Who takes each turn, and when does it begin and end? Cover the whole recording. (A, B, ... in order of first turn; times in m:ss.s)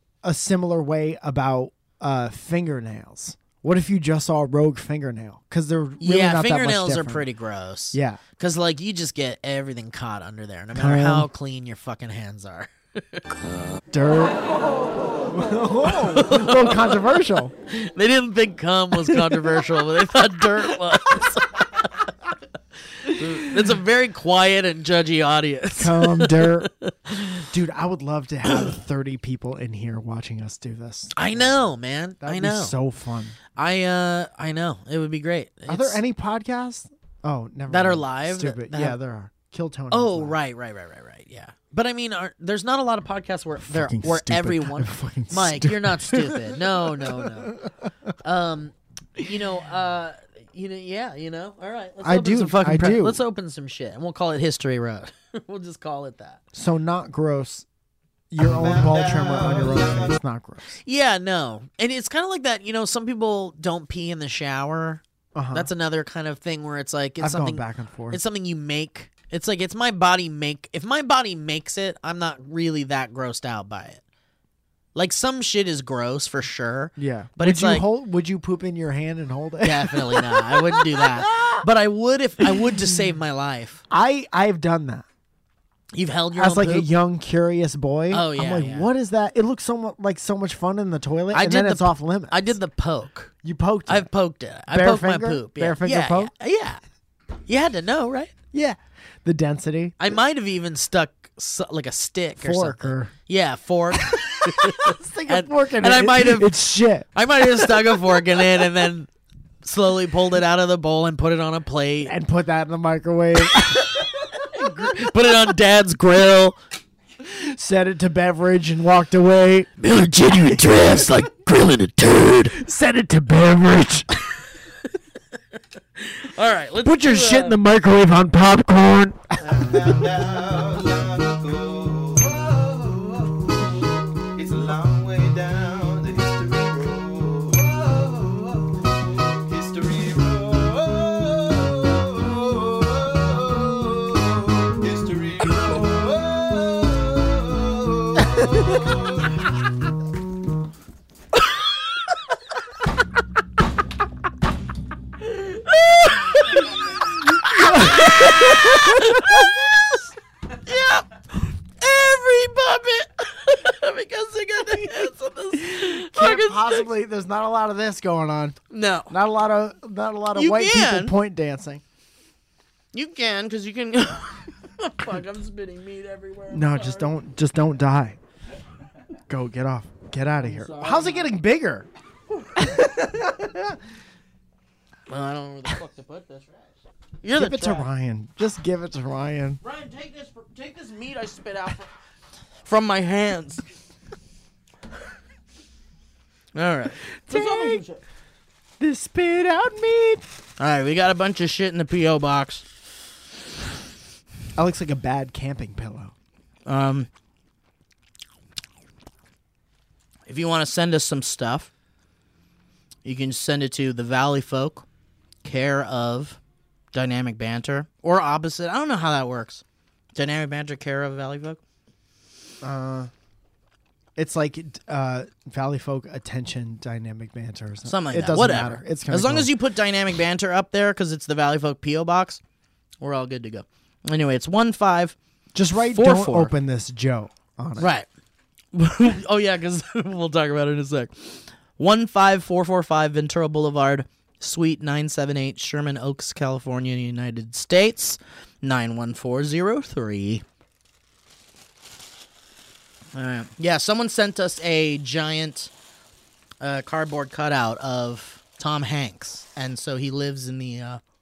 0:00.2-0:07.3 A
0:06.0-0:13.2 B
0:07.9-0:08.2 A
0:10.7-0:11.3 A
0:13.9-0:14.5 A
0:15.2-0:17.5 A
0:16.0-0:17.0 B
0:17.7-0:21.7 B
0:19.0-0:19.7 A
0:20.7-0:21.3 A
0:23.0-0:27.4 B
0:25.8-0:26.7 A
0:27.5-0:31.6 A
0:31.1-0:32.8 B
0:32.2-0:33.4 A
0:33.6-0:36.0 B
0:35.7-0:40.4 A
0:37.7-0:39.0 B
0:39.9-0:47.6 B
0:43.6-0:48.1 A
0:48.2-0:56.4 B
0:52.0-0:53.2 A
0:56.5-0:57.7 A
0:58.3-1:00.8 A
0:58.5-1:00.2 C
1:00.8-1:14.0 B
1:05.4-1:05.7 A
1:07.2-1:08.2 A
1:15.0-1:17.9 B
1:17.0-1:21.6 A
1:19.6-1:23.8 B
1:23.9-1:25.1 A
1:25.9-1:26.9 B
1:26.4-1:32.6 A
1:28.1-1:28.9 B
1:31.3-1:33.3 B
1:33.4-1:34.1 A
1:33.9-1:36.8 B
1:34.7-1:36.3 A
1:37.5-1:38.3 B
1:38.5-1:40.0 A
1:40.0-1:46.6 B
1:42.4-1:43.1 A
1:44.0-1:48.7 A
1:47.1-1:49.1 B
1:49.6-1:52.1 B
1:52.0-1:55.1 A
1:53.5-1:56.6 B
1:57.2-1:59.7 A
1:59.8-2:02.6 B
2:00.7-2:01.0 A
2:02.5-2:04.1 A
2:06.0-2:07.6 B
2:06.8-2:10.0 A
2:09.4-2:29.3 C
2:35.3-2:40.1 B
2:37.4-2:39.5 A
2:40.6-2:41.1 B
2:41.8-2:46.9 B
2:44.7-2:45.1 A
2:45.6-2:48.6 A
2:48.7-2:49.2 B
2:49.1-2:51.8 A
2:50.3-2:51.2 B
2:52.9-2:57.1 B
2:56.5-2:58.2 A
2:59.3-3:01.9 A
3:00.4-3:01.3 B
3:02.6-3:03.8 A
3:05.1-3:06.6 B
3:07.2-3:07.9 B
3:07.3-3:09.6 A
3:09.6-3:11.9 B
3:12.6-3:13.6 B
3:16.6-3:18.0 B
3:17.2-3:17.8 A
3:18.8-3:20.2 A
3:20.6-3:22.6 B
3:24.6-3:26.1 A
3:26.7-3:27.1 B
3:30.3-3:31.7 B
3:33.0-3:34.9 B
3:35.4-3:36.4 B
3:36.9-3:39.6 B
3:40.2-3:41.6 B
3:42.6-3:43.1 A
3:44.2-3:49.5 A
3:47.8-3:52.4 B
3:53.0-3:55.2 B
3:55.5-3:57.9 A
3:55.8-3:56.5 B
3:57.8-3:58.1 B
3:58.7-4:10.4 B
4:13.1-4:15.7 B
4:16.6-4:21.0 B